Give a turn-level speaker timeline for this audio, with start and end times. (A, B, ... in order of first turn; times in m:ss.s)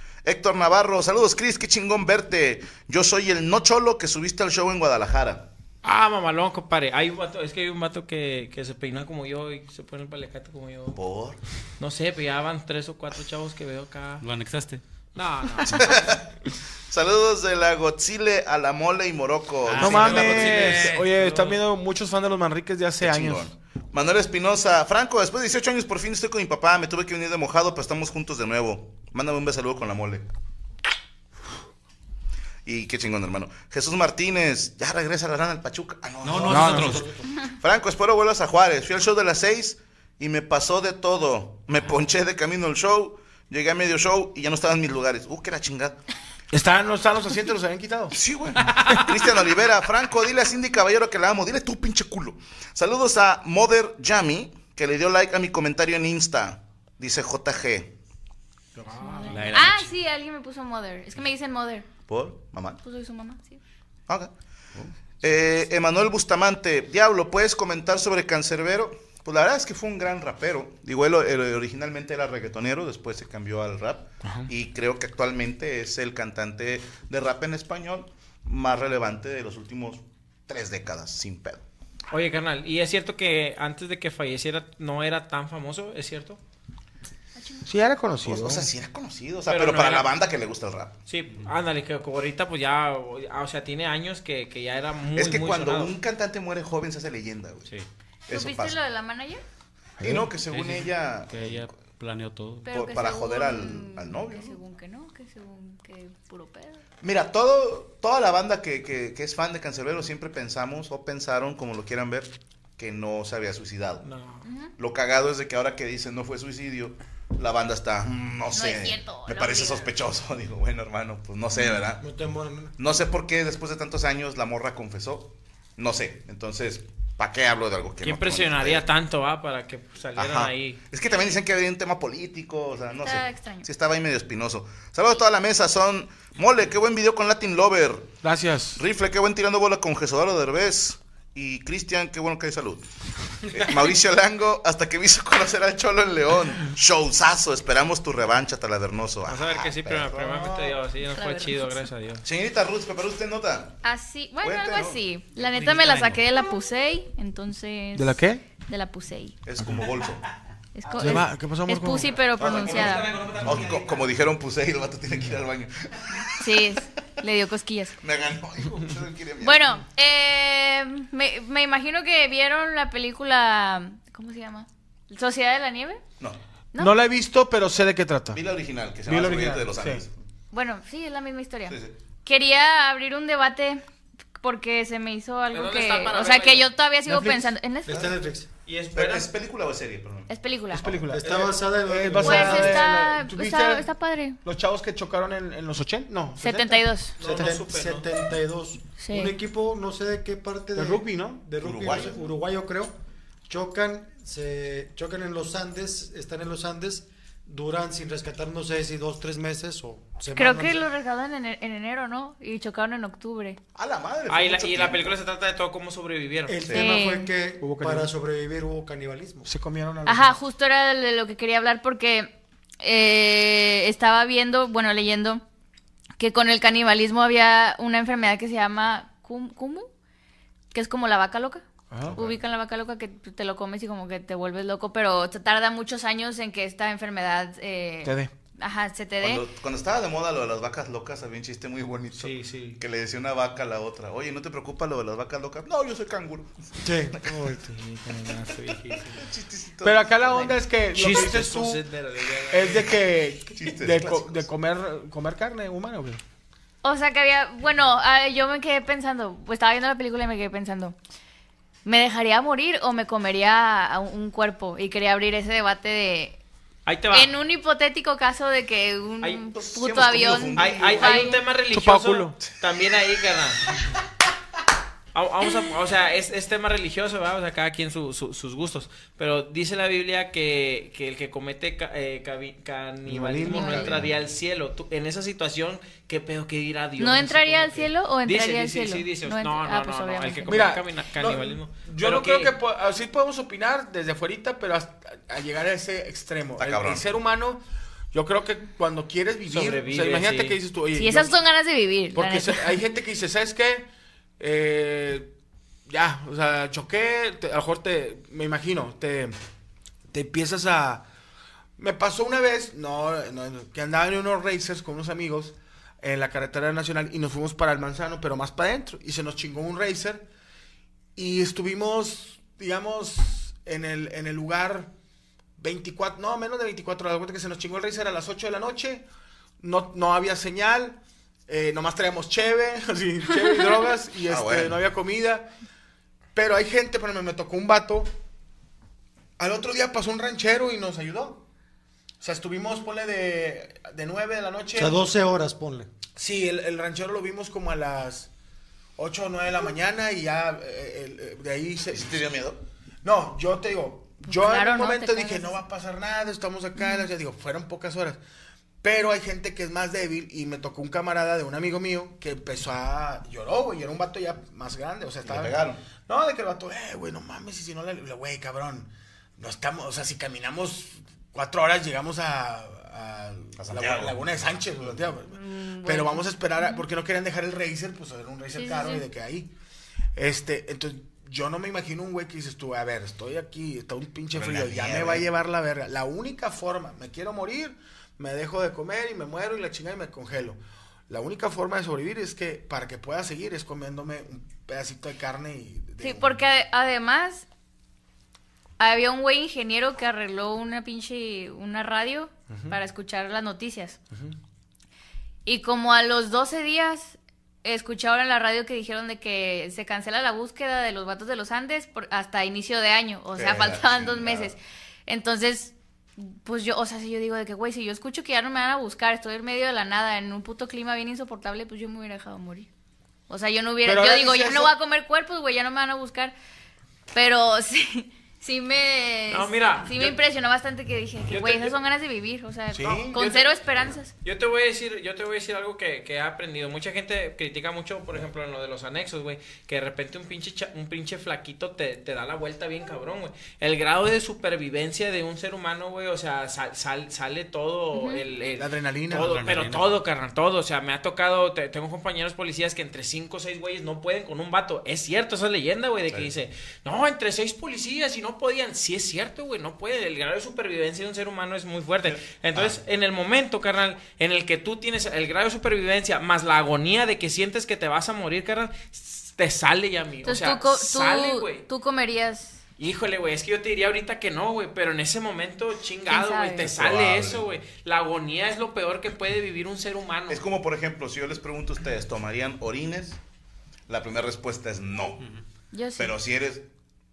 0:00.2-0:05.5 A
0:05.8-0:11.0 B
0:10.9-0:11.4 A
0:11.8-0:14.2 B
0:14.2-0:14.8 C
0:15.2-0:16.0 B
0:15.7-0:16.2 A
0:16.9-0:20.8 A
0:19.6-0:21.1 C
0:19.8-0:23.5 D
0:19.8-0:21.6 B
0:23.0-0:30.3 A
0:32.6-0:46.0 A
0:36.2-0:37.2 C
0:36.4-0:37.2 E
0:36.5-0:36.8 D
0:46.5-0:48.2 D
0:48.1-0:57.9 A
0:48.7-0:49.0 D
0:58.8-0:59.3 D
0:58.8-0:59.5 B
0:59.0-1:01.9 F
0:59.3-1:00.0 C
1:02.1-1:02.8 A
1:02.8-1:03.6 F
1:05.2-1:21.6 A
1:14.2-1:14.5 D
1:22.1-1:26.4 B
1:27.4-1:27.7 F
1:27.7-1:28.7 D
1:28.2-1:31.0 A
1:29.5-1:30.1 B
1:31.1-1:35.9 B
1:35.2-1:37.7 A
1:38.3-1:38.8 A
1:38.3-1:39.4 F
1:40.0-1:41.6 A
1:40.0-1:42.7 C
1:42.7-1:46.8 F
1:42.7-1:44.6 A
1:47.0-1:54.1 A
1:54.0-1:54.5 B
1:54.4-1:54.7 F
1:54.8-2:02.0 A
1:58.5-1:59.9 F
2:02.0-2:02.7 E
2:02.8-2:08.8 A
2:08.0-2:10.8 B
2:10.2-2:18.1 A
2:13.0-2:13.7 F
2:18.2-2:18.8 D
2:18.8-2:22.8 A
2:23.5-2:30.7 A
2:29.3-2:32.2 B
2:31.1-2:31.8 F
2:32.2-2:33.8 A
2:33.8-2:39.4 F
2:34.4-2:35.0 A
2:35.4-2:36.2 C
2:38.0-2:38.4 D
2:39.4-2:40.2 A
2:39.7-2:40.0 C
2:40.8-2:43.1 F
2:40.9-2:41.2 C
2:41.0-2:42.2 D
2:42.4-2:44.1 C
2:43.4-2:46.8 A
2:46.4-2:48.0 F
2:48.0-2:49.8 A
2:49.4-2:56.0 F
2:56.8-2:58.4 D
2:58.3-3:00.1 A
2:59.1-3:00.0 D
3:00.5-3:03.8 F
3:01.7-3:01.9 A
3:04.4-3:08.2 F
3:05.5-3:06.7 B
3:07.1-3:07.5 D
3:07.9-3:08.5 E
3:08.7-3:09.3 B
3:08.9-3:10.3 A
3:10.3-3:10.8 F
3:10.7-3:13.9 D
3:11.1-3:12.9 E
3:12.2-3:14.4 F
3:14.4-3:17.6 D
3:16.4-3:17.2 F
3:17.2-3:18.1 B
3:17.2-3:23.0 E
3:19.0-3:19.4 F
3:20.8-3:21.4 D
3:21.6-3:22.2 A
3:23.5-3:30.9 E
3:30.4-3:33.6 F
3:33.8-3:35.2 A
3:34.3-3:36.6 B
3:36.5-3:39.5 E
3:36.7-3:36.9 A
3:36.7-3:37.3 F
3:37.6-3:38.1 D
3:39.4-3:40.4 D
3:40.1-3:45.4 F
3:46.2-3:49.9 F
3:50.7-3:59.4 F
3:51.9-3:52.2 D
3:52.0-3:52.3 A
3:58.0-3:58.3 D
3:59.2-4:07.5 A
4:02.1-4:02.8 B
4:06.8-4:07.6 E
4:07.4-4:09.3 B
4:08.5-4:10.5 A
4:09.8-4:11.8 D
4:10.9-4:13.0 B
4:12.5-4:16.2 D
4:13.5-4:14.5 A
4:16.8-4:21.0 F
4:21.8-4:26.4 F
4:26.9-4:27.3 B
4:27.1-4:31.4 F
4:29.5-4:31.1 A
4:30.6-4:33.7 B
4:31.7-4:32.4 D
4:35.1-4:52.5 B
4:43.1-4:44.1 D
4:43.5-4:44.0 F
4:47.0-4:50.7 F
4:50.5-5:01.3 D
4:56.6-4:57.0 A
4:59.5-5:00.6 B
5:00.9-5:02.8 F
5:02.2-5:03.9 D
5:04.4-5:05.3 D
5:05.9-5:09.4 D
5:10.1-5:11.0 D
5:11.8-5:20.2 D
5:21.2-5:24.9 D
5:25.6-5:29.0 D
5:29.6-5:35.5 D
5:34.3-5:34.8 A
5:36.3-5:38.1 D
5:39.4-5:41.4 D
5:42.2-5:45.1 D
5:44.8-5:45.9 E
5:46.2-5:48.3 D
5:49.0-5:52.2 D
5:51.9-5:52.6 A
5:53.0-5:58.2 D
5:54.3-5:55.6 F
5:56.8-5:57.1 F
5:58.8-6:19.5 D
6:05.2-6:05.8 A
6:13.6-6:15.0 A
6:15.3-6:16.8 F
6:18.5-6:19.1 F
6:20.2-6:36.4 D
6:24.3-6:25.3 A
6:36.0-6:37.4 F
6:38.8-6:44.0 F
6:42.5-6:42.8 D
6:45.4-7:02.7 F
6:53.4-6:54.5 A
7:03.3-7:06.3 F
7:03.8-7:04.7 D
7:07.1-7:14.1 F
7:09.3-7:10.2 B
7:11.3-7:11.7 D
7:12.7-7:13.2 D
7:13.1-7:13.4 B
7:14.2-7:51.6 B
7:27.9-7:28.2 F
7:28.6-7:29.3 D
7:29.2-7:29.9 C
7:42.2-7:42.8 A
7:50.2-7:52.6 F
7:52.8-8:00.4 B
7:56.1-7:56.7 F
7:56.6-7:57.5 A
8:00.3-8:03.2 A
8:03.9-8:05.2 A
8:05.7-8:06.1 F
8:06.0-8:06.7 A